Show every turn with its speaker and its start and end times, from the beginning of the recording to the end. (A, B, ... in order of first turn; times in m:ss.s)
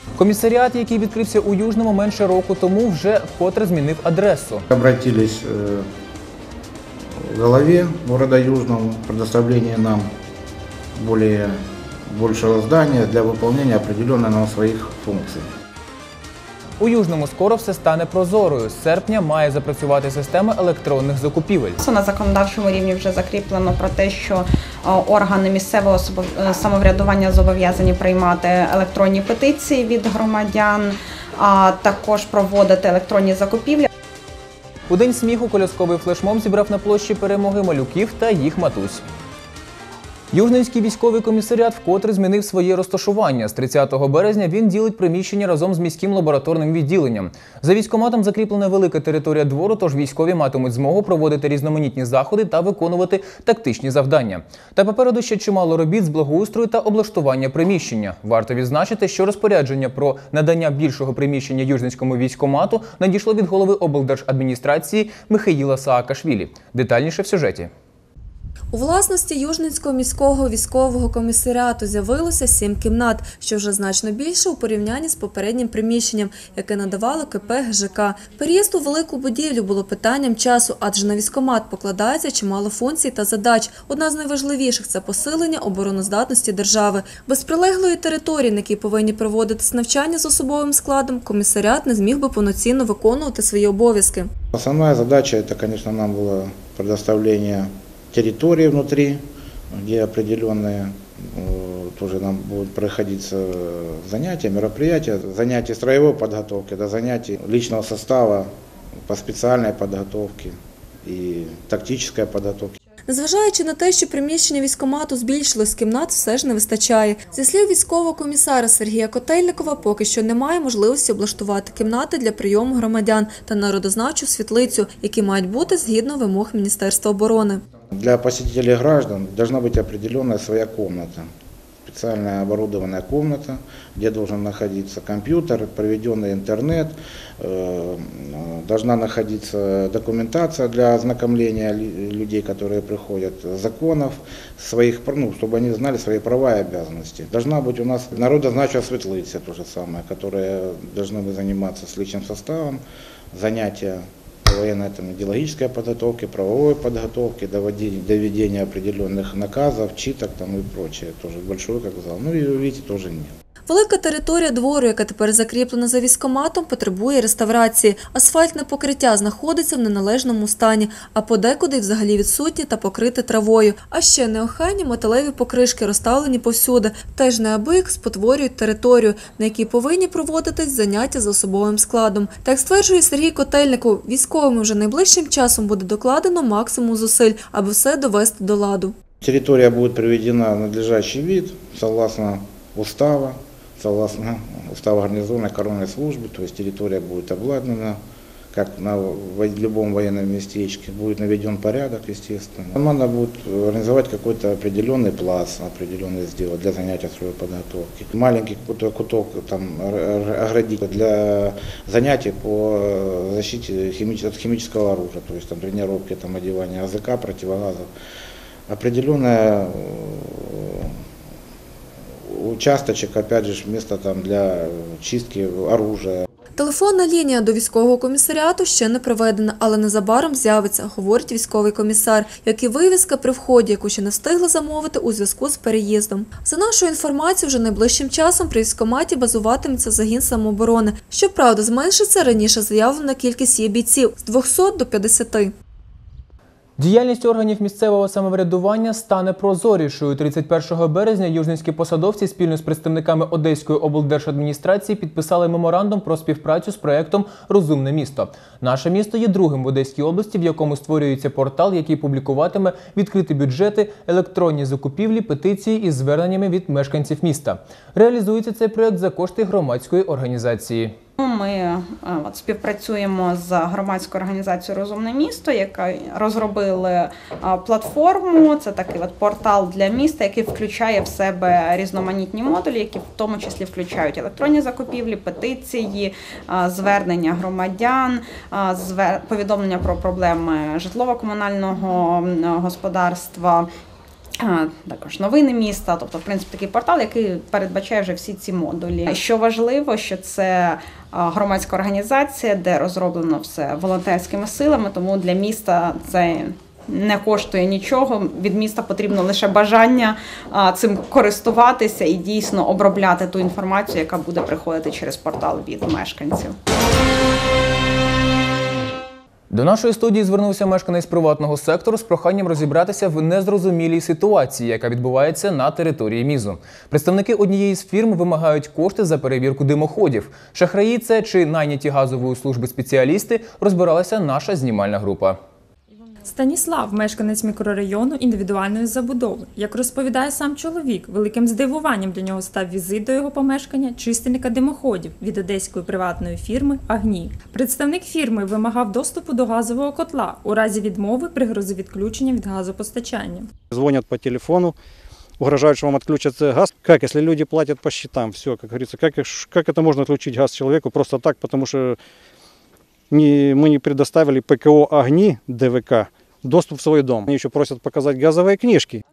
0:00.2-0:04.6 A
0:04.7-0:05.9 B
0:07.2-0:10.1 B
0:11.0-0:15.5 B
0:16.8-0:21.8 A
0:21.9-0:33.9 C
0:34.9-0:39.0 A
0:40.3-1:07.7 A
1:08.7-1:34.3 D
1:34.5-1:39.2 B
1:39.7-1:48.5 B
1:49.1-1:52.8 B
1:53.1-2:07.6 D
2:07.9-2:11.3 B
2:11.9-2:32.8 B
2:33.3-2:43.3 B
2:43.7-3:08.9 D
3:09.2-3:18.0 B
3:18.5-3:37.9 B
3:38.7-3:41.0 B
3:42.3-3:46.2 B
3:46.6-4:05.5 D
4:06.8-4:30.9 A
4:31.2-4:53.7 C
4:54.4-5:16.6 C
5:19.5-5:35.4 A
5:36.2-5:53.5 E
5:53.7-5:54.8 F
5:55.4-6:02.0 F
6:03.1-6:09.0 F